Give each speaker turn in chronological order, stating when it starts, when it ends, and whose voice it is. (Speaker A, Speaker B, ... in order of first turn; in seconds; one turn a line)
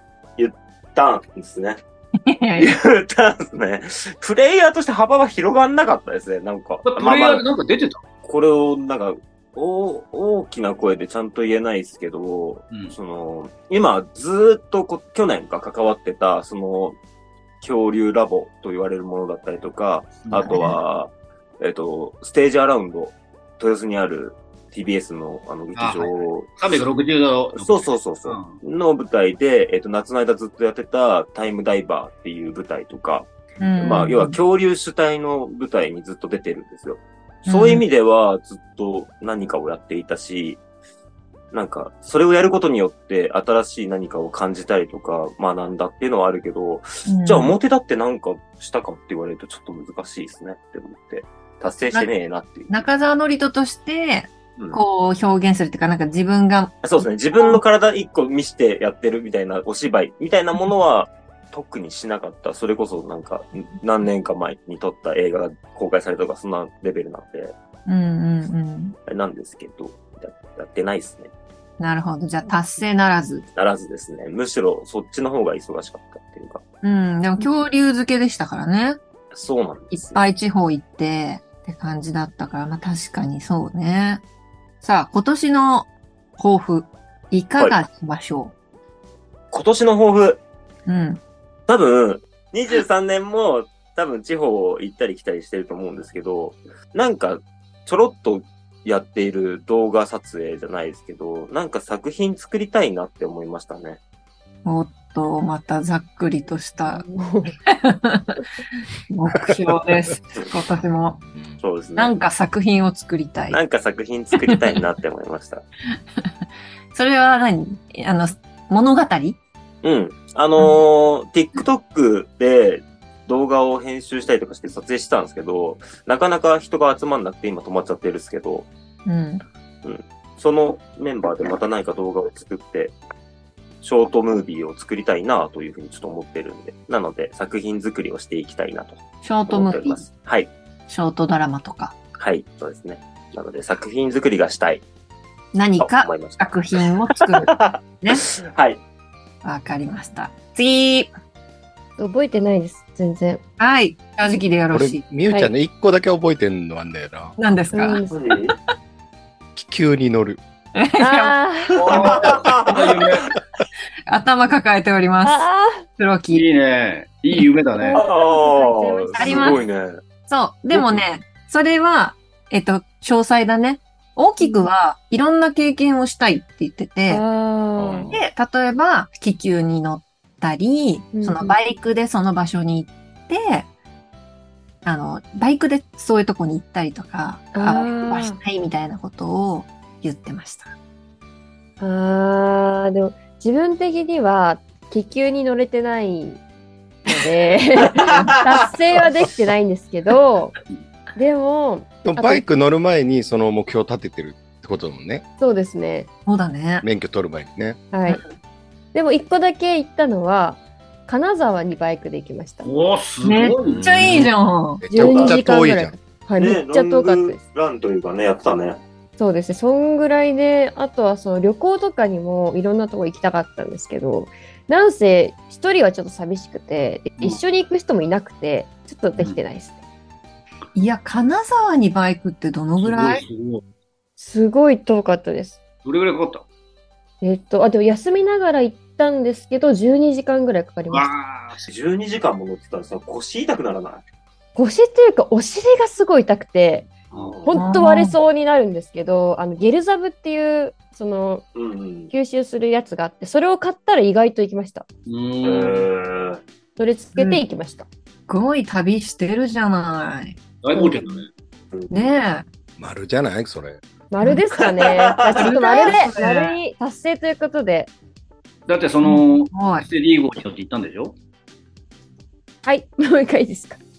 Speaker A: 0.4-1.8
Speaker B: 2.2-2.7
Speaker A: 2.6-7.4
Speaker C: 6.8-8.0
Speaker A: 8.2-17.0
Speaker A: 17.6-26.8
Speaker C: 20.3-20.5
Speaker B: 20.4-20.8
Speaker C: 25.8-28.6
Speaker A: 27.5-40.6
Speaker B: 33.6-34.4
Speaker B: 37.5-37.8
Speaker A: 41.5-52.8
Speaker B: 47.0-47.5
Speaker B: 52.7-57.6
Speaker A: 56.8-67.5
Speaker B: 67.8-69.0
Speaker A: 69.0-71.3
Speaker B: 71.8-73.4
Speaker A: 73.5-76.6
Speaker B: 76.8-79.0
Speaker A: 79.3-80.2
Speaker B: 79.9-84.2
Speaker B: 84.8-88.5
Speaker A: 89.5-90.4
Speaker B: 90.9-91.2
Speaker A: 91.7-104.0
Speaker B: 104.6-107.0
Speaker D: 106.9-107.5
Speaker B: 107.7-108.3
Speaker B: 109.1-111.2
Speaker A: 111.6-112.1
Speaker B: 112.0-113.6
Speaker A: 113.5-115.6
Speaker B: 116.9-119.4
Speaker A: 119.8-128.7
Speaker B: 129.1-129.4
Speaker A: 129.8-132.9
Speaker A: 133.8-140.5
Speaker B: 139.2-140.0
Speaker B: 140.9-141.9
Speaker A: 142.2-144.8
Speaker B: 145.5-148.2
Speaker A: 145.8-146.6
Speaker A: 147.2-148.8
Speaker B: 149.4-151.1
Speaker D: 152.0-153.4
Speaker B: 153.6-155.0
Speaker E: 154.7-157.3
Speaker B: 157.4-158.1
Speaker D: 157.7-158.2
Speaker A: 158.1-158.5
Speaker E: 159.5-160.4
Speaker B: 160.8-161.4
Speaker D: 161.0-161.8
Speaker A: 161.7-163.3
Speaker C: 161.8-163.2
Speaker B: 164.1-165.4
Speaker D: 165.2-165.8
Speaker B: 166.0-166.4
Speaker C: 166.3-168.0
Speaker D: 167.8-169.6
Speaker A: 167.9-170.0
Speaker B: 169.1-169.6
Speaker B: 170.3-177.2
Speaker C: 170.7-171.0
Speaker D: 174.4-174.7
Speaker D: 177.1-178.1
Speaker E: 177.8-178.1
Speaker B: 178.1-183.7
Speaker D: 181.1-181.6
Speaker B: 184.8-190.7
Speaker D: 187.5-188.4
Speaker D: 191.8-196.4
Speaker D: 197.0-200.6
Speaker B: 198.1-198.3
Speaker D: 201.2-202.4
Speaker E: 202.0-205.2
Speaker D: 205.4-206.1
Speaker B: 206.2-206.8
Speaker E: 206.8-207.8
Speaker D: 207.9-208.2
Speaker D: 208.9-212.7
Speaker C: 212.6-214.3
Speaker B: 213.2-214.9
Speaker E: 213.8-214.2
Speaker E: 214.8-215.9
Speaker D: 214.9-217.4
Speaker A: 214.9-215.4
Speaker A: 216.4-218.8
Speaker D: 219.2-229.8
Speaker B: 230.7-233.2
Speaker C: 232.8-233.6
Speaker D: 234.2-235.6
Speaker C: 235.8-236.4
Speaker D: 237.2-241.1
Speaker C: 240.9-241.7
Speaker A: 241.7-244.0
Speaker D: 244.6-246.9
Speaker A: 247.1-247.6
Speaker D: 247.4-251.4
Speaker B: 247.5-248.2
Speaker A: 251.5-252.1
Speaker D: 252.1-254.8
Speaker C: 255.1-255.9
Speaker A: 255.4-256.4
Speaker D: 256.8-257.9
Speaker B: 257.1-257.4
Speaker B: 258.3-260.4
Speaker C: 260.6-261.3
Speaker A: 261.7-262.1
Speaker B: 261.9-262.4
Speaker E: 262.8-263.8
Speaker D: 264.1-267.9
Speaker A: 264.8-265.6
Speaker B: 265.4-266.6
Speaker C: 268.7-271.1
Speaker B: 269.0-269.9
Speaker D: 272.6-273.8